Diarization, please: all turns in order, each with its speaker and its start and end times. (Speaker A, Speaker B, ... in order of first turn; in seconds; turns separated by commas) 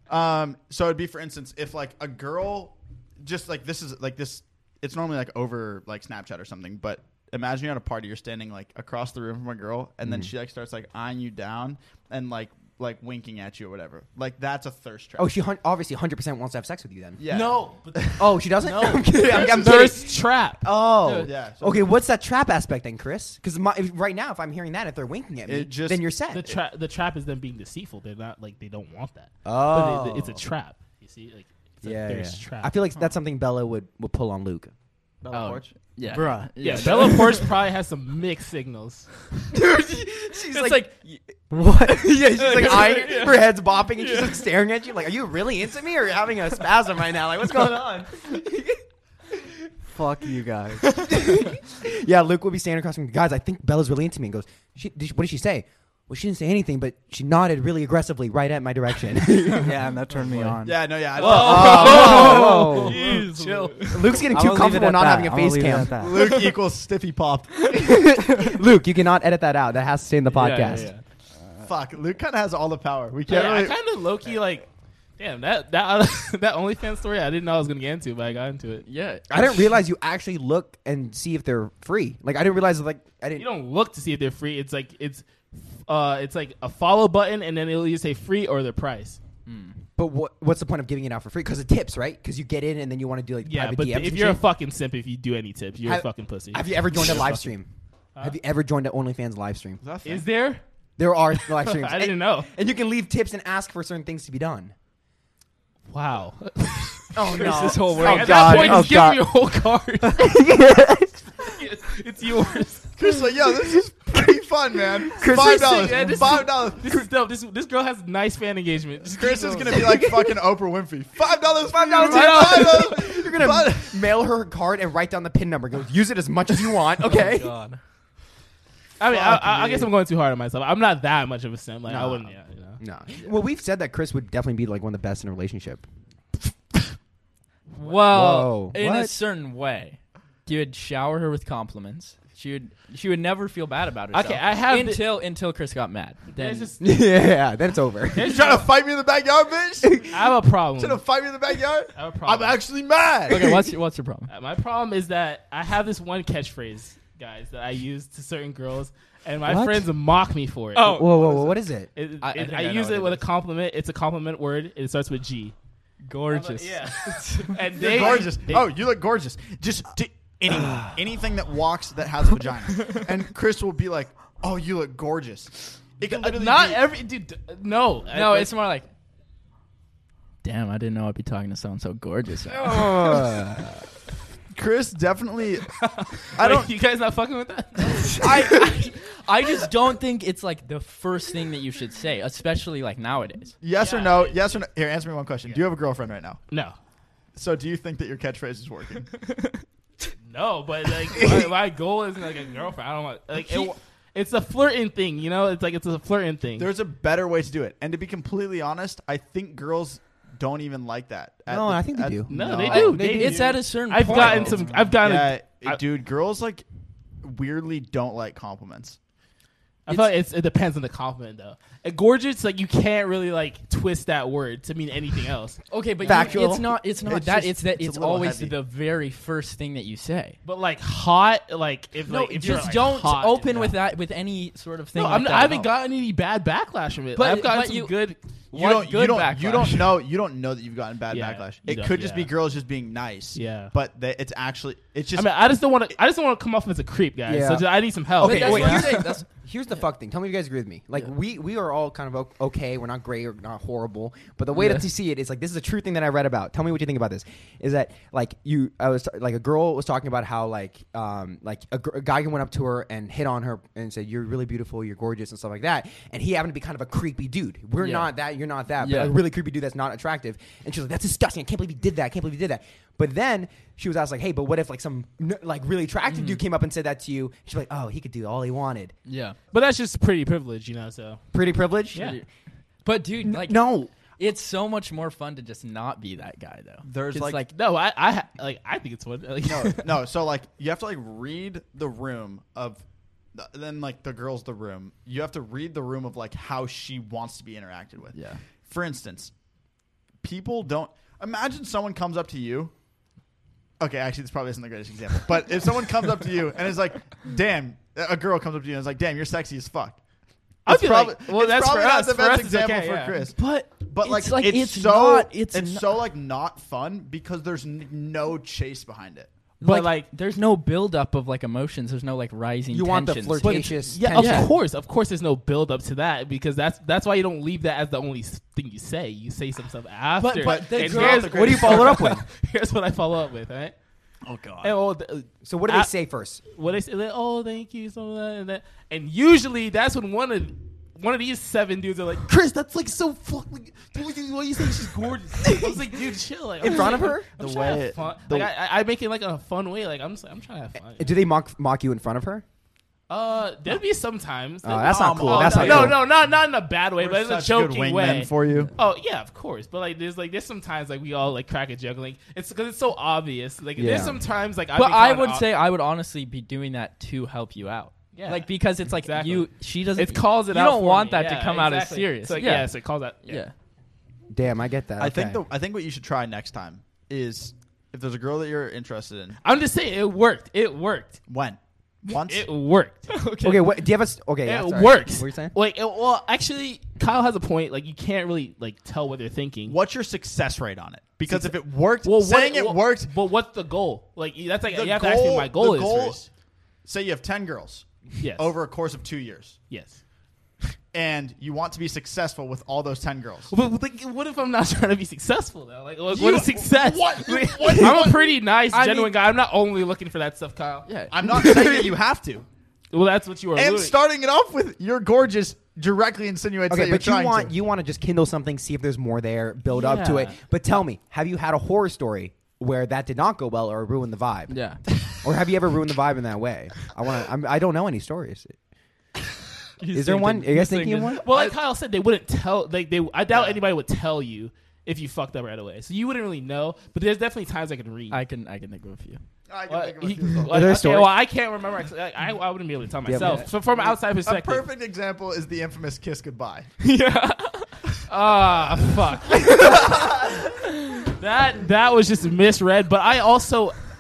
Speaker A: 0.1-15.3, Speaker B: 10.0-10.3, Speaker B: 15.2-17.2, Speaker A: 17.2-18.3, Speaker C: 17.3-17.6, Speaker B: 18.2-26.5, Speaker C: 18.6-20.7, Speaker A: 19.3-19.9, Speaker D: 21.0-21.3, Speaker A: 21.2-21.9, Speaker A: 25.4-26.6, Speaker C: 26.3-32.7, Speaker B: 29.4-30.4, Speaker B: 31.8-34.7, Speaker A: 35.3-35.7, Speaker D: 35.3-37.5, Speaker E: 36.1-36.9, Speaker C: 36.6-39.1, Speaker B: 39.5-40.9, Speaker D: 40.5-41.2, Speaker B: 41.5-48.8, Speaker E: 41.5-42.0, Speaker D: 42.2-44.5, Speaker E: 49.9-51.1, Speaker B: 51.0-59.8, Speaker E: 59.5-60.9, Speaker D: 60.3-60.5, Speaker A: 60.6-62.4, Speaker B: 61.2-63.0, Speaker C: 61.2-63.8, Speaker D: 61.2-64.2, Speaker E: 62.1-62.6, Speaker B: 63.9-66.0, Speaker E: 64.3-66.3, Speaker A: 65.9-68.0, Speaker B: 67.7-70.9, Speaker D: 70.3-71.0, Speaker A: 71.6-73.8, Speaker C: 73.3-74.7, Speaker C: 75.2-78.8, Speaker D: 78.8-79.7, Speaker B: 79.3-83.5, Speaker C: 83.3-89.2, Speaker D: 89.5-89.8, Speaker B: 90.0-94.4, Speaker C: 93.4-97.5, Speaker B: 95.8-97.7, Speaker B: 98.2-99.8, Speaker A: 99.8-100.3, Speaker C: 100.0-100.6, Speaker B: 101.0-104.7, Speaker C: 101.5-102.5, Speaker C: 105.9-110.4, Speaker B: 107.1-109.2, Speaker D: 107.3-109.0, Speaker B: 110.2-111.5, Speaker C: 111.4-112.9, Speaker A: 113.0-117.0, Speaker B: 115.1-116.2, Speaker C: 115.3-119.8, Speaker A: 119.0-124.0, Speaker B: 119.7-120.4, Speaker B: 121.6-127.5, Speaker C: 122.0-122.8, Speaker D: 127.0-127.8, Speaker C: 129.0-132.8, Speaker B: 129.1-129.9, Speaker B: 131.8-135.8, Speaker D: 137.7-146.7, Speaker B: 138.1-139.1, Speaker C: 144.1-145.0, Speaker C: 146.3-146.9, Speaker B: 146.8-148.3, Speaker C: 148.1-148.7, Speaker A: 148.2-150.2, Speaker C: 150.1-151.0, Speaker A: 150.8-153.4, Speaker C: 151.9-152.6, Speaker D: 153.3-154.3, Speaker B: 153.3-153.7, Speaker C: 154.3-165.5, Speaker B: 159.4-159.9, Speaker D: 160.7-161.2, Speaker B: 160.8-161.9, Speaker D: 162.2-163.2, Speaker D: 166.0-168.2, Speaker C: 166.3-168.7, Speaker A: 167.8-176.8, Speaker C: 176.1-178.5, Speaker D: 178.1-178.9, Speaker D: 180.4-183.4, Speaker B: 182.6-183.8, Speaker A: 184.5-185.8, Speaker C: 185.8-188.8, Speaker A: 186.3-186.7, Speaker D: 188.2-193.5, Speaker A: 193.6-196.4, Speaker C: 193.8-194.4, Speaker C: 196.5-196.8, Speaker A: 197.3-199.1, Speaker D: 199.3-199.6, Speaker C: 200.2-206.7, Speaker A: 206.6-213.0, Speaker B: 211.5-213.5, Speaker C: 212.3-215.8, Speaker D: 212.7-214.7, Speaker A: 214.1-216.6, Speaker A: 217.2-219.0, Speaker C: 219.9-225.6, Speaker D: 225.7-230.4, Speaker B: 226.0-226.8, Speaker A: 227.1-228.5, Speaker C: 230.4-233.8, Speaker D: 232.1-235.7, Speaker C: 234.9-238.2, Speaker D: 237.2-237.9, Speaker D: 238.5-239.9, Speaker A: 238.5-245.3, Speaker C: 241.1-242.3, Speaker C: 243.3-243.7, Speaker C: 245.2-249.0, Speaker B: 247.2-278.9, Speaker D: 248.2-249.2, Speaker D: 254.5-254.8, Speaker D: 267.8-268.1, Speaker D: 268.8-269.2, Speaker D: 276.1-276.4, Speaker D: 279.1-279.4, Speaker C: 279.5-281.2, Speaker B: 281.3-282.1, Speaker D: 281.9-282.2, Speaker D: 282.8-287.5, Speaker B: 283.2-283.9, Speaker A: 286.8-287.4, Speaker C: 287.5-289.9, Speaker A: 289.4-292.8, Speaker A: 293.3-299.3, Speaker D: 298.1-298.4, Speaker A: 300.2-302.7, Speaker A: 303.8-310.0, Speaker C: 310.6-313.1, Speaker A: 310.6-319.3, Speaker D: 313.2-315.9, Speaker D: 319.6-324.5, Speaker C: 319.6-320.1, Speaker B: 322.7-324.5, Speaker C: 323.4-333.7, Speaker D: 330.2-331.8, Speaker A: 330.4-331.9, Speaker B: 330.7-332.2, Speaker A: 334.2-334.7, Speaker C: 334.6-335.9, Speaker B: 335.4-336.4, Speaker C: 336.5-351.1, Speaker B: 346.6-347.3, Speaker A: 347.4-348.5, Speaker B: 351.0-352.4, Speaker C: 353.1-365.4, Speaker B: 354.6-356.0, Speaker A: 354.8-356.0, Speaker A: 357.0-358.7, Speaker B: 363.8-364.2, Speaker D: 364.7-372.7, Speaker C: 368.1-373.4, Speaker D: 373.2-373.5, Speaker B: 374.3-375.4, Speaker A: 375.0-379.4, Speaker C: 379.4-381.2, Speaker A: 381.3-382.5, Speaker C: 382.1-383.1, Speaker D: 383.1-383.8, Speaker B: 383.4-385.5, Speaker C: 384.4-389.7, Speaker A: 389.7-393.1, Speaker C: 391.3-396.2, Speaker A: 394.7-396.3, Speaker A: 396.8-399.6, Speaker C: 398.2-398.5, Speaker C: 399.7-400.0, Speaker A: 400.9-403.5, Speaker C: 403.5-411.9, Speaker A: 406.1-408.4, Speaker D: 408.7-409.1, Speaker D: 410.9-411.1, Speaker A: 411.1-412.4, Speaker C: 412.9-413.9, Speaker A: 413.5-417.5, Speaker B: 416.7-424.5, Speaker C: 419.8-420.3, Speaker D: 424.5-424.8, Speaker B: 425.1-428.5, Speaker D: 429.8-431.5, Speaker B: 429.9-431.3, Speaker C: 431.2-438.2, Speaker A: 433.3-433.6, Speaker D: 438.1-439.2, Speaker A: 439.5-440.8, Speaker C: 439.7-444.6, Speaker B: 440.5-441.1, Speaker B: 443.1-443.4, Speaker A: 443.6-446.7, Speaker D: 446.8-447.7, Speaker C: 448.1-450.0, Speaker D: 448.7-449.8, Speaker C: 451.1-453.8